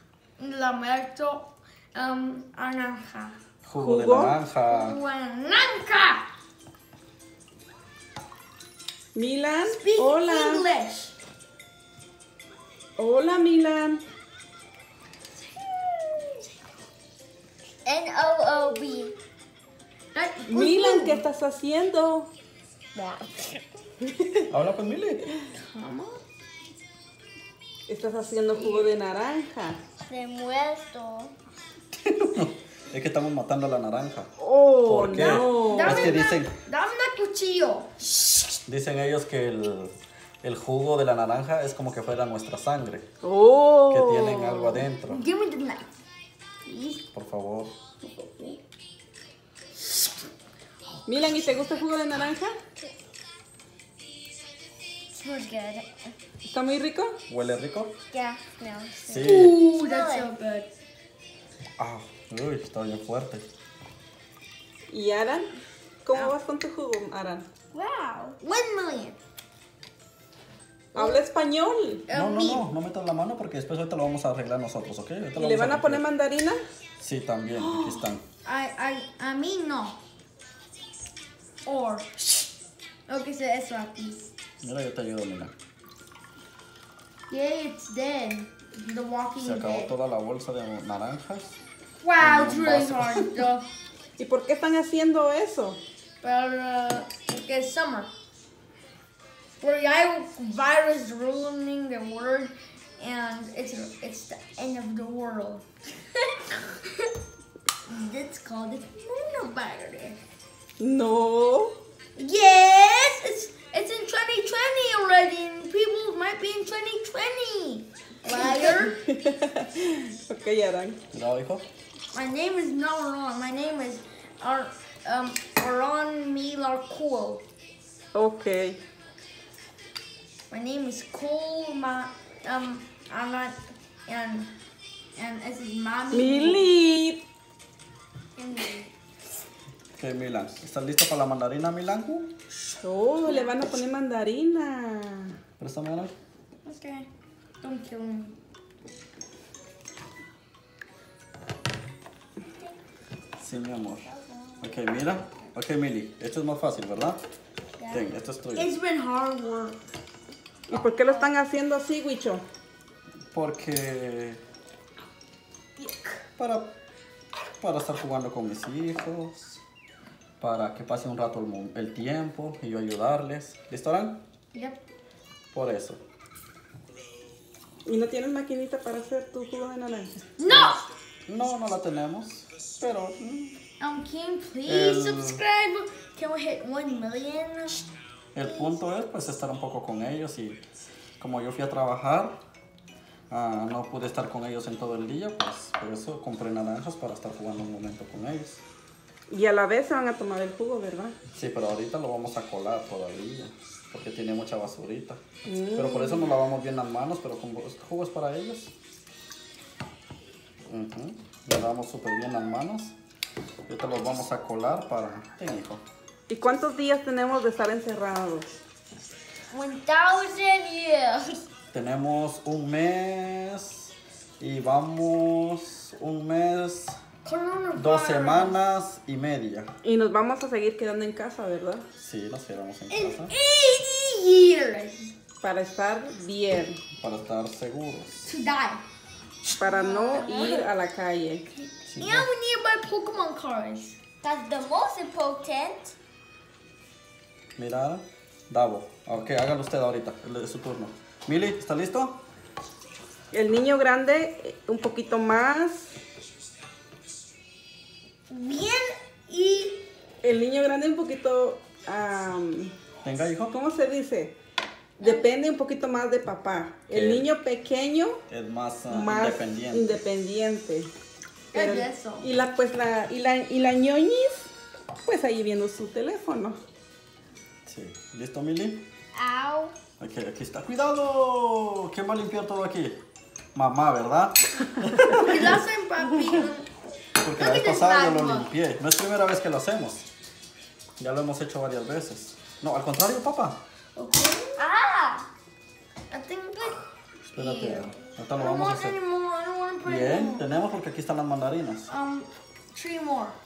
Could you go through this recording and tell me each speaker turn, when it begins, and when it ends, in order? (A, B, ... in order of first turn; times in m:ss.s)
0:00.4-0:03.4 A
0:03.6-0:05.0 B
0:03.8-0:04.4 C
0:04.7-0:06.2 A
0:09.2-0:10.7 C
0:09.7-0:11.2 A
0:13.0-0:14.0 C
0:15.6-0:16.4 A
0:17.8-0:19.1 D
0:18.6-0:19.1 A
0:20.1-0:21.2 A
0:20.5-0:22.3 C
0:23.0-0:23.6 D
0:24.5-0:25.3 B
0:25.6-0:26.2 A
0:27.9-0:29.8 C
0:28.6-0:28.9 D
0:30.0-0:31.3 D
0:32.0-0:34.3 B
0:34.4-0:36.2 C
0:34.8-0:36.5 B
0:35.7-0:38.5 A
0:38.7-0:43.0 B
0:43.2-0:44.9 C
0:43.9-0:45.2 B
0:45.1-0:45.9 A
0:46.7-0:47.0 A
0:47.1-0:47.7 B
0:48.0-0:48.6 A
0:51.1-0:52.6 C
0:55.1-0:56.1 D
0:56.5-0:57.2 C
0:57.3-0:58.0 B
0:58.1-1:00.3 D
0:59.1-0:59.6 B
0:59.2-1:00.7 A
1:01.8-1:03.5 B
1:04.9-1:05.5 C
1:06.0-1:07.5 C
1:07.7-1:08.4 D
1:08.4-1:09.2 A
1:10.9-1:11.2 A
1:10.9-1:12.0 C
1:12.1-1:12.7 A
1:12.1-1:16.0 B
1:15.4-1:16.6 C
1:17.0-1:18.2 B
1:18.4-1:20.0 A
1:21.7-1:22.5 A
1:23.1-1:24.3 A
1:24.6-1:25.5 B
1:27.3-1:30.0 A
1:29.4-1:31.6 B
1:32.0-1:33.7 A
1:32.2-1:33.3 B
1:34.2-1:35.8 C
1:36.2-1:38.1 A
1:39.6-1:47.1 A
1:47.9-1:50.2 A
1:50.8-1:51.8 C
1:52.2-1:59.0 A
1:58.3-2:01.0 C
2:01.1-2:01.6 B
2:02.1-2:07.4 A
2:08.1-2:08.8 C
2:10.5-2:14.5 A
2:15.2-2:16.7 A
2:16.1-2:17.2 C
2:18.4-2:18.9 A
2:20.0-2:22.3 B
2:22.8-2:25.3 C
2:25.6-2:26.1 B
2:26.6-2:27.1 A
2:27.6-2:28.4 A
2:33.4-2:34.0 B
2:34.1-2:34.7 D
2:34.6-2:37.2 B
2:37.8-2:38.0 D
2:37.9-2:38.7 B
2:38.6-2:39.9 A
2:40.7-2:42.4 C
2:40.8-2:41.3 D
2:43.3-2:44.4 B
2:46.4-2:46.7 B
2:47.6-2:49.6 B
2:50.4-2:54.2 B
2:54.5-2:54.8 A
2:55.5-2:56.0 B
2:57.9-3:00.2 C
3:00.4-3:00.9 A
3:00.5-3:00.8 B
3:01.3-3:03.6 B
3:03.8-3:07.9 A
3:04.7-3:05.4 B
3:08.4-3:10.6 B
3:11.2-3:12.4 B
3:13.3-3:18.6 B
3:19.3-3:21.2 C
3:21.3-3:28.7 B
3:25.5-3:26.3 C
3:30.7-3:33.0 B
3:33.7-3:35.8 B
3:36.3-3:38.5 C
3:39.5-3:40.0 A
3:39.9-3:41.4 D
3:41.7-3:47.0 B
3:47.2-3:48.6 A
3:47.8-3:49.7 B
3:49.8-3:51.8 C
3:52.0-3:53.3 B
3:52.9-3:55.1 A
3:55.4-3:56.8 C
3:57.0-3:58.3 B
3:58.3-3:58.8 A
3:59.4-4:00.5 A
3:59.6-4:01.4 C
3:59.8-4:00.6 D
4:01.9-4:02.3 B
4:02.0-4:04.0 A
4:04.2-4:05.9 D
4:07.6-4:12.2 B
4:13.3-4:15.9 C
4:18.3-4:19.8 A
4:20.2-4:22.7 C
4:23.0-4:23.6 B
4:23.5-4:24.4 C
4:25.0-4:28.2 C
4:26.9-4:27.3 B
4:28.3-4:30.0 B
4:28.9-4:30.9 C
4:31.5-4:32.3 A
4:31.5-4:34.5 C
4:35.0-4:36.6 C
4:37.7-4:38.9 B
4:39.2-4:39.8 D
4:40.0-4:43.0 B
4:43.6-4:45.6 B
4:45.1-4:46.7 A
4:47.2-4:50.1 B
4:47.3-4:48.5 A
4:51.0-4:53.6 B
4:54.0-4:54.6 A
4:54.6-4:55.3 D
4:56.1-5:00.5 A
4:57.3-4:59.0 B
4:59.8-5:01.9 B
5:01.9-5:03.4 A